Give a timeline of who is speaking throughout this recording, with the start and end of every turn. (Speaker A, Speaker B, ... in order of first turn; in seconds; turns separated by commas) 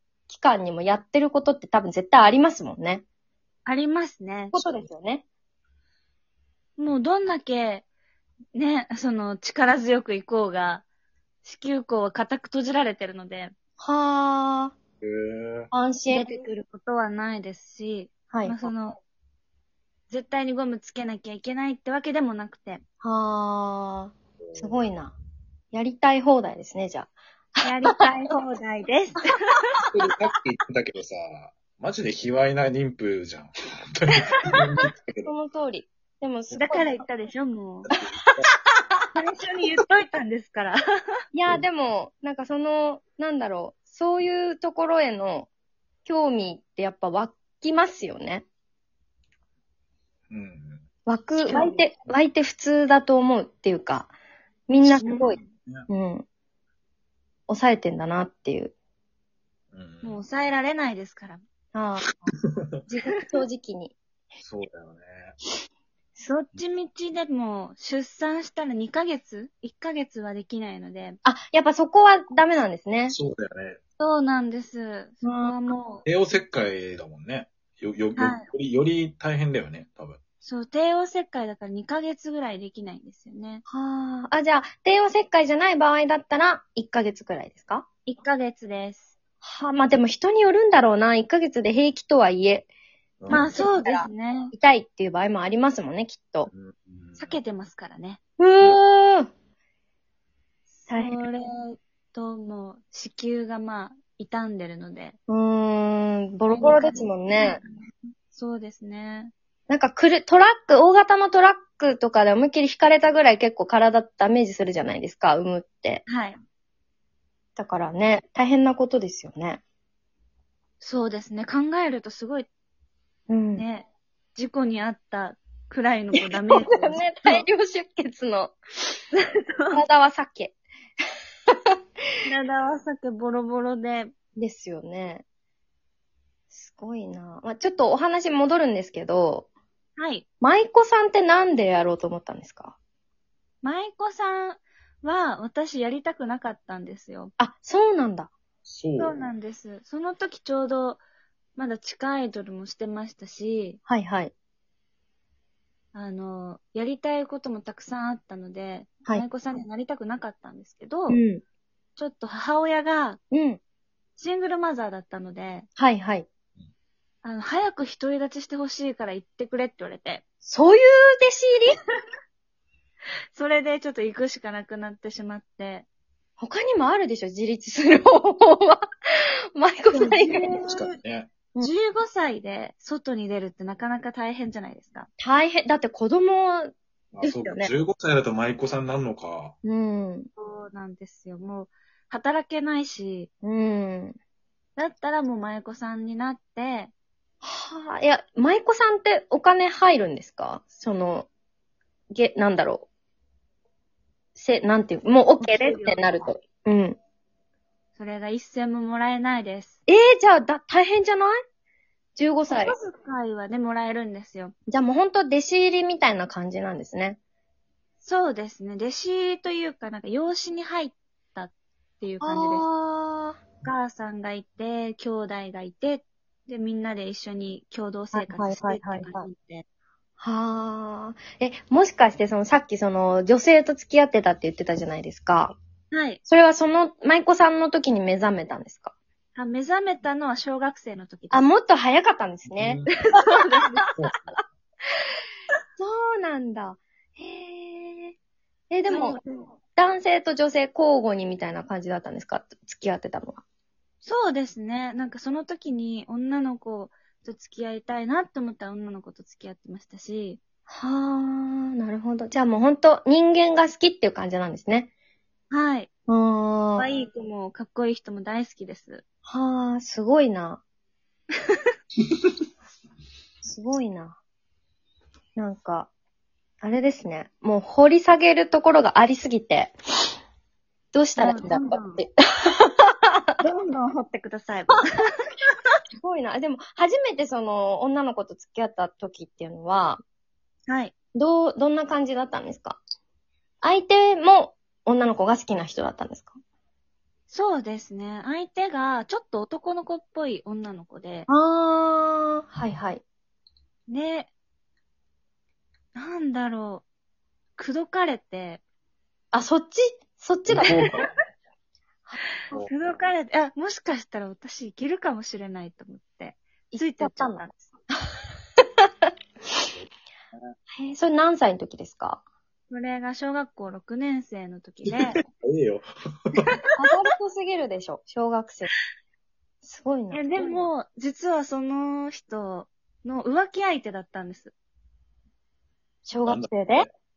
Speaker A: 0.3-3.0, Speaker B: 3.6-4.8, Speaker A: 4.5-5.2, Speaker B: 6.8-7.8, Speaker B: 8.5-10.8, Speaker B: 11.4-13.5, Speaker A: 13.8-14.7, Speaker C: 15.0-15.7, Speaker A: 15.7-16.3, Speaker B: 16.1-19.0, Speaker A: 18.3-18.7, Speaker B: 20.1-22.8, Speaker A: 23.0-25.1, Speaker C: 24.4-24.8, Speaker A: 25.7-27.1, Speaker B: 27.6-29.5, Speaker C: 29.9-35.3, Speaker A: 35.2-37.0, Speaker B: 36.5-37.9, Speaker C: 37.9-38.5, Speaker B: 39.1-40.8, Speaker A: 41.3-45.5, Speaker A: 46.0-48.4, Speaker C: 50.3-50.8, Speaker A: 51.0-54.1, Speaker B: 51.4-51.8, Speaker A: 54.7-55.4, Speaker B: 54.9-55.4, Speaker A: 55.9-56.2, Speaker A: 57.5-58.7, Speaker C: 59.7-60.2, Speaker B: 60.0-61.4, Speaker A: 61.7-62.2, Speaker A: 62.9-63.9, Speaker C: 64.4-65.3, Speaker B: 66.2-71.2, Speaker A: 71.2-73.2, Speaker C: 73.1-73.8, Speaker B: 74.0-76.0, Speaker A: 75.2-75.7, Speaker C: 76.0-80.2, Speaker B: 78.2-78.5, Speaker B: 80.4-83.6, Speaker A: 83.7-87.9, Speaker B: 88.1-89.1, Speaker A: 89.4-92.7, Speaker C: 93.2-93.6, Speaker A: 93.3-96.5, Speaker B: 93.3-94.5, Speaker C: 96.5-97.4, Speaker B: 97.2-98.2, Speaker A: 98.4-99.3, Speaker B: 100.8-105.2, Speaker A: 100.9-101.2, Speaker A: 105.3-107.6, Speaker B: 106.5-109.3, Speaker A: 109.7-116.1, Speaker B: 116.1-116.4, Speaker A: 117.6-119.6, Speaker B: 120.8-122.5, Speaker A: 123.3-123.6, Speaker B: 123.5-127.4, Speaker A: 126.1-128.6, Speaker B: 129.1-129.8, Speaker A: 129.7-130.6, Speaker B: 132.2-134.1, Speaker A: 134.4-135.2, Speaker A: 136.5-139.5, Speaker B: 139.9-140.2, Speaker A: 140.4-142.8, Speaker B: 143.6-147.3, Speaker A: 147.4-148.3, Speaker C: 148.7-149.2, Speaker B: 149.0-151.0, Speaker B: 151.6-153.8, Speaker A: 153.9-154.3, Speaker B: 155.9-161.2, Speaker A: 161.1-161.4, Speaker B: 161.9-163.2, Speaker A: 163.3-163.6, Speaker B: 164.2-165.7, Speaker A: 165.8-166.3, Speaker B: 167.2-170.2, Speaker A: 170.4-171.7, Speaker B: 173.3-175.9, Speaker A: 176.4-178.9, Speaker A: 179.6-180.5, Speaker B: 179.9-180.9, Speaker C: 180.5-181.3, Speaker B: 181.6-185.1, Speaker A: 185.2-187.7, Speaker C: 187.1-189.6, Speaker A: 189.6-190.3, Speaker B: 190.4-193.3, Speaker A: 193.4-194.2, Speaker B: 194.8-196.9, Speaker A: 197.4-201.3, Speaker A: 202.1-202.9, Speaker A: 204.3-207.0, Speaker B: 205.4-206.3, Speaker B: 207.9-209.8, Speaker A: 209.9-211.4, Speaker A: 212.2-212.8, Speaker B: 212.6-214.5, Speaker A: 214.7-217.2, Speaker B: 218.0-222.7, Speaker A: 222.2-223.4, Speaker B: 223.6-229.6, Speaker A: 228.1-229.3, Speaker A: 230.2-235.6, Speaker B: 235.9-236.2, Speaker A: 236.2-238.9, Speaker B: 239.3-241.5, Speaker A: 241.3-242.8, Speaker C: 242.5-242.9, Speaker B: 243.1-243.9, Speaker C: 243.9-244.4, Speaker A: 245.8-248.2, Speaker A: 248.7-249.2, Speaker B: 248.9-249.5, Speaker A: 249.8-253.4, Speaker B: 254.0-260.4, Speaker A: 260.7-264.9, Speaker B: 265.5-265.9, Speaker A: 266.1-266.9, Speaker B: 266.8-269.0, Speaker A: 269.2-270.6, Speaker A: 273.4-274.1, Speaker A: 275.4-275.9, Speaker A: 276.6-279.7, Speaker A: 280.9-283.3, Speaker B: 281.2-282.0, Speaker B: 283.4-285.5, Speaker A: 286.0-290.0, Speaker B: 290.7-290.9, Speaker A: 291.1-292.8, Speaker A: 293.6-296.3, Speaker B: 297.3-301.3, Speaker A: 301.3-303.0, Speaker B: 303.9-304.3, Speaker B: 305.9-306.8, Speaker B: 307.6-308.6, Speaker A: 309.3-310.8, Speaker C: 310.5-311.1, Speaker B: 312.6-317.6, Speaker A: 316.7-317.5, Speaker A: 320.8-322.2, Speaker B: 322.7-325.2, Speaker C: 324.9-326.5, Speaker A: 326.8-328.7, Speaker A: 329.6-330.7, Speaker B: 330.1-334.5, Speaker A: 336.1-336.9, Speaker C: 336.2-336.9